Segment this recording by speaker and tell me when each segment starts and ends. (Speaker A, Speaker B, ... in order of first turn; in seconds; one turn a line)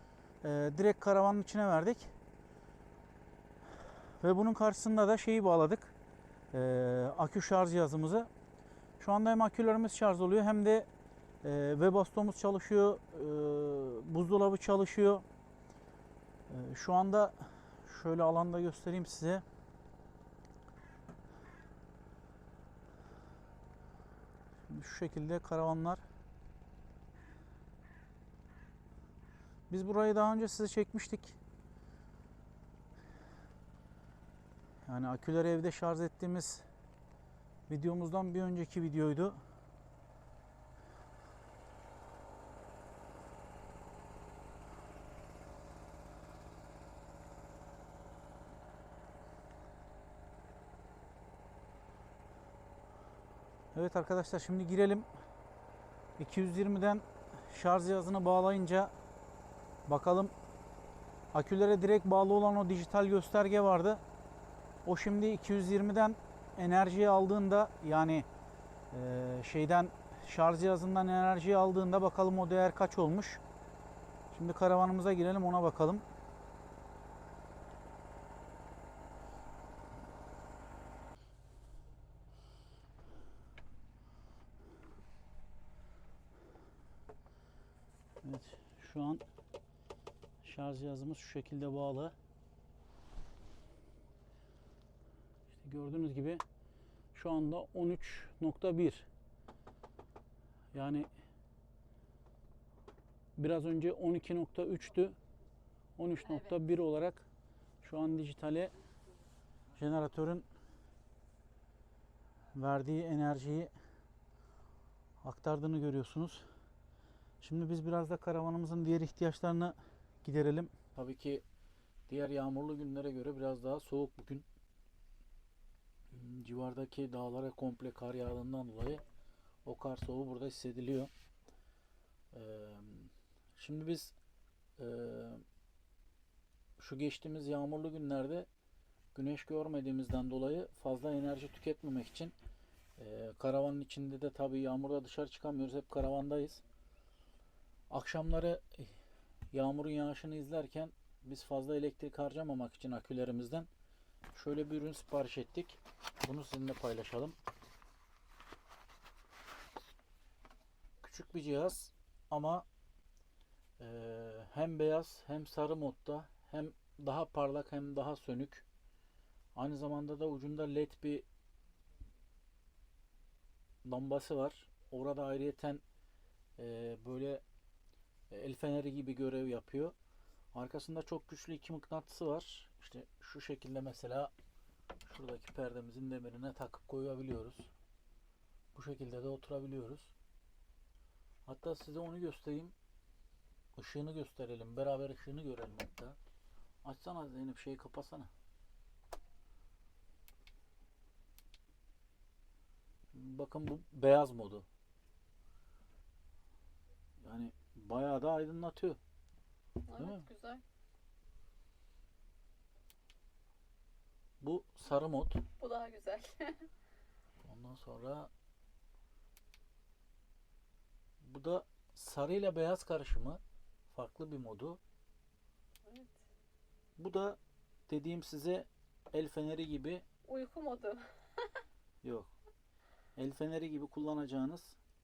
Speaker A: 0.4-2.1
Speaker A: 4.2-5.9
Speaker A: 6.5-8.3
Speaker A: 9.0-10.9
Speaker A: 11.4-15.2
Speaker A: 16.5-19.4
Speaker A: 24.7-26.0
Speaker A: 29.7-31.4
Speaker A: 34.8-36.6
Speaker A: 37.7-39.4
Speaker A: 53.7-55.1
Speaker A: 56.2-58.9
Speaker A: 59.9-60.3
Speaker A: 61.3-64.0
Speaker A: 64.8-68.3
Speaker A: 68.9-73.4
Speaker A: 74.3-76.0
Speaker A: 88.2-89.2
Speaker A: 90.4-92.1
Speaker A: 95.5-96.4
Speaker A: 97.1-99.1
Speaker A: 100.7-101.1
Speaker A: 103.4-105.2
Speaker A: 106.0-107.3
Speaker B: 106.2-106.6
Speaker A: 107.8-108.7
Speaker A: 109.8-110.5
Speaker A: 112.5-113.7
Speaker A: 115.2-116.5
Speaker A: 117.4-121.4
Speaker A: 122.1-124.4
Speaker A: 126.1-129.0
Speaker A: 129.6-131.1
Speaker A: 132.3-134.2
Speaker A: 134.8-135.4
Speaker A: 136.8-138.5
Speaker A: 139.1-142.3
Speaker A: 143.0-146.6
Speaker A: 147.9-148.9
Speaker A: 149.5-153.7
Speaker A: 154.3-157.3
Speaker A: 161.0-162.7
Speaker A: 163.8-168.6
Speaker A: 169.5-171.2
Speaker A: 173.8-175.8
Speaker A: 176.6-177.4
Speaker A: 178.3-179.9
Speaker A: 180.5-184.3
Speaker A: 185.1-187.7
Speaker A: 188.7-190.1
Speaker A: 191.4-192.7
Speaker A: 193.8-196.2
Speaker A: 196.8-198.3
Speaker A: 203.1-204.7
Speaker A: 207.2-209.0
Speaker B: 209.8-210.6
Speaker A: 210.0-210.2
Speaker A: 214.4-215.4
Speaker B: 215.6-216.7
Speaker A: 217.4-218.3
Speaker A: 221.2-224.8
Speaker B: 225.8-226.2
Speaker A: 227.0-230.0
Speaker B: 230.2-231.6
Speaker A: 232.0-232.3
Speaker A: 233.2-234.8